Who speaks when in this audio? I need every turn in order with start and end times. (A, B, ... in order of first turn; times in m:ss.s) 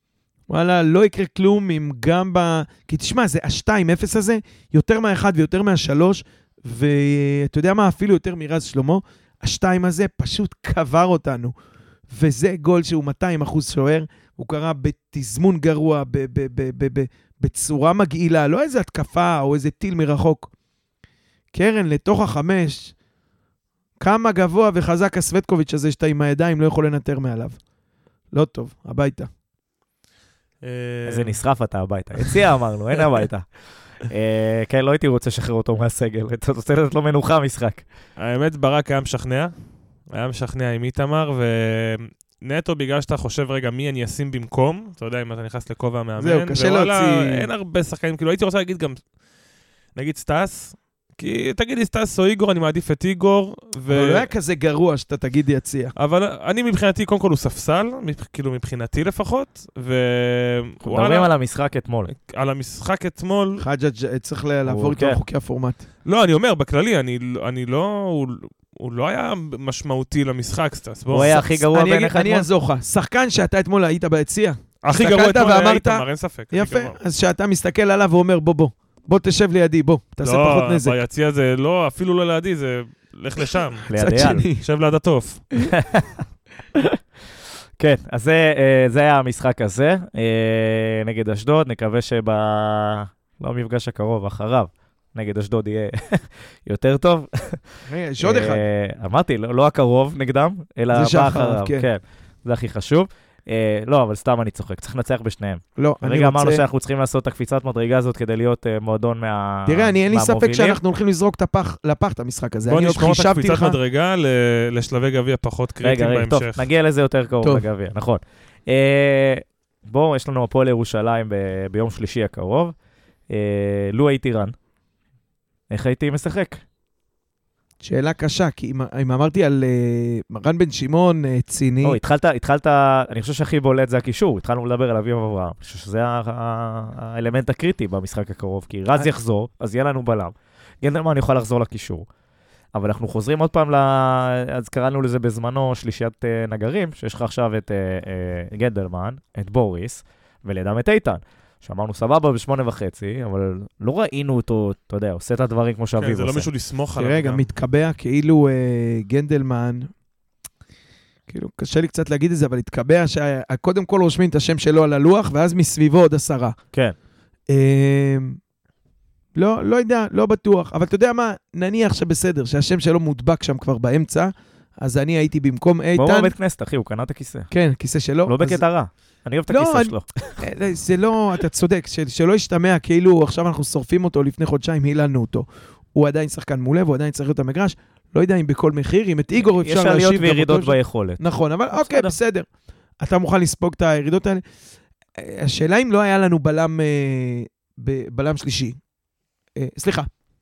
0:00.5-0:11.5 A
0:12.1-0:20.5 A
0:21.5-0:22.9 A
0:24.0-0:27.6 A
0:28.3-0:29.3 A
0:30.6-0:31.4 B
0:31.1-0:37.8 C
0:38.2-0:49.2 B
0:46.2-0:47.5 A
0:49.9-0:54.3 B
0:53.9-0:55.9 A
0:56.0-1:01.3 B
1:00.8-1:02.1 C
1:02.1-1:03.6 B
1:03.6-1:05.8 A
1:04.6-1:05.2 C
1:06.0-1:11.4 B
1:11.1-1:12.5 C
1:11.2-1:21.0 A
1:14.8-1:17.0 B
1:20.2-1:25.5 B
1:23.9-1:24.4 C
1:23.9-1:24.6 A
1:25.7-1:26.2 C
1:27.8-1:50.8 C
1:37.8-1:38.6 A
1:40.9-1:41.9 A
1:45.8-1:46.6 A
1:49.6-1:53.8 A
1:52.6-1:56.6 B
1:55.8-2:02.7 C
1:57.4-1:57.7 A
2:03.3-2:04.5 C
2:05.7-2:06.6 C
2:07.8-2:12.0 A
2:11.8-2:22.0 C
2:22.7-2:36.5 C
2:36.0-2:37.5 B
2:37.0-2:39.9 A
2:41.3-2:46.6 A
2:47.5-2:48.4 A
2:49.3-2:54.3 A
2:54.8-2:56.3 A
2:56.0-2:57.5 C
2:57.5-2:58.6 A
2:58.2-3:00.4 C
2:59.5-3:12.4 A
3:09.4-3:12.1 C
3:13.0-3:14.4 A
3:15.2-3:18.8 A
3:19.6-3:20.1 A